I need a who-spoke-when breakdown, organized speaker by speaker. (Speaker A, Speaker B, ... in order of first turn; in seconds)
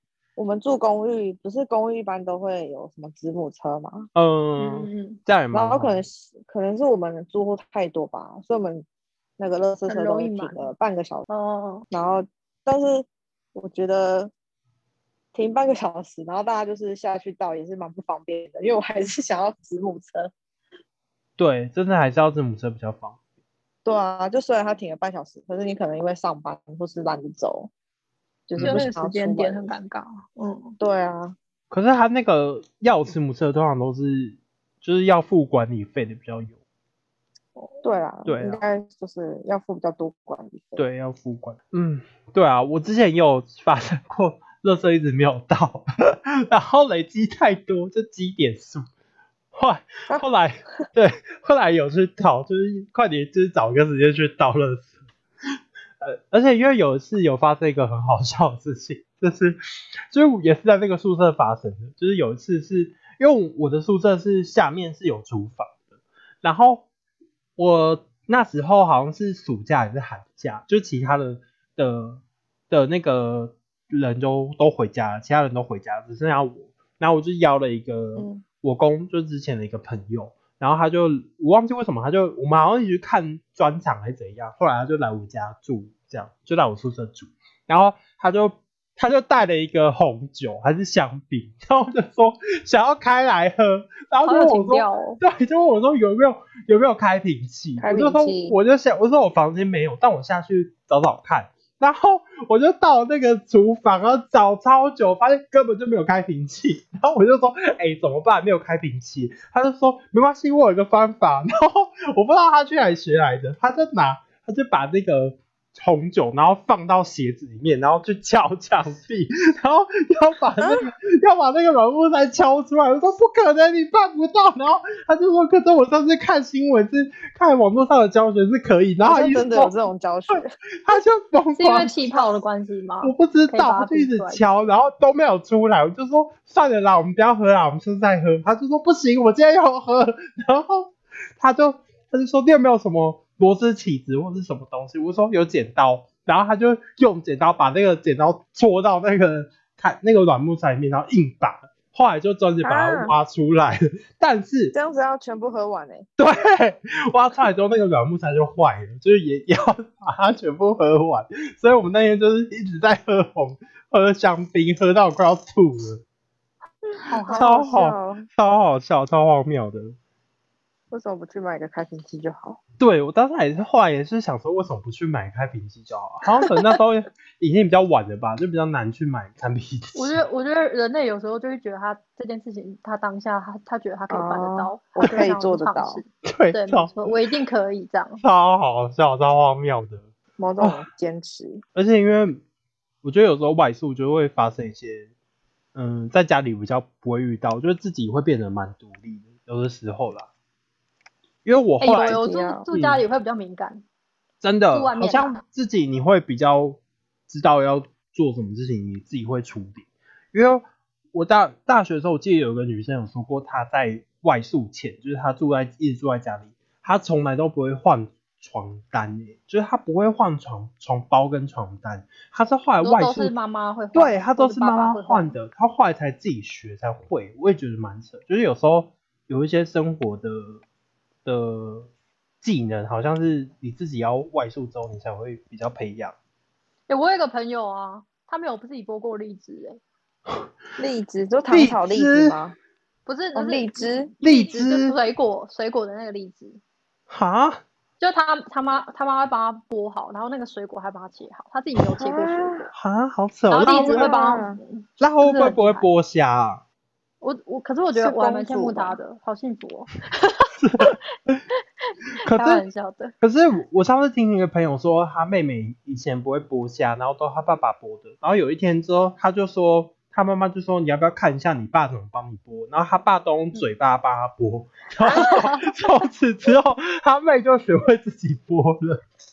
Speaker A: 0.3-4.1, 5.5-8.8, 9.4-11.3, 11.9-14.3, 15.3-20.3, 23.8-27.7, 28.5-29.7, 30.8-31.4, 37.8-40.8, 78.2-78.4, 97.8-98.6, 129.0-130.5, 152.6-153.2, 154.7-156.1, 167.2-168.3, 170.9-172.6, 184.1-186.0, 190.4-191.6, 201.9-202.7, 240.8-242.6, 243.3-244.1, 252.0-252.7, 253.6-254.6, 257.9-259.0
Speaker B: 4.1-6.0, 21.4-23.2, 28.6-28.9, 31.7-36.5, 38.2-38.6, 40.8-48.9, 49.5-54.9, 56.0-59.6, 60.1-65.8, 66.4-66.8, 67.6-129.7, 130.3-131.9, 133.0-154.7, 156.2-166.0, 167.3-169.9, 172.8-180.2, 186.2-187.1, 188.2-190.1, 190.6-190.8, 191.7-192.4, 193.0-195.1, 195.7-200.3, 201.4-202.2, 202.7-203.0, 204.4-223.3, 223.9-230.6, 231.2-231.9, 232.4-236.1, 241.5-242.3, 244.2-244.9, 247.1-247.6, 252.7-254.1, 255.0-256.6, 260.6-261.4, 262.2-262.6, 263.2-279.0
Speaker C: 4.6-5.2, 9.9-10.6, 11.3-11.8, 28.6-30.8, 37.5-37.8, 94.2-95.2, 131.6-134.4, 167.1-167.5, 179.9-188.2, 201.8-203.8, 204.7-205.4, 222.8-225.3, 236.9-239.8, 243.1-246.6, 248.0-252.7, 253.5-255.9, 257.2-261.0, 261.8-263.1, 275.0-275.9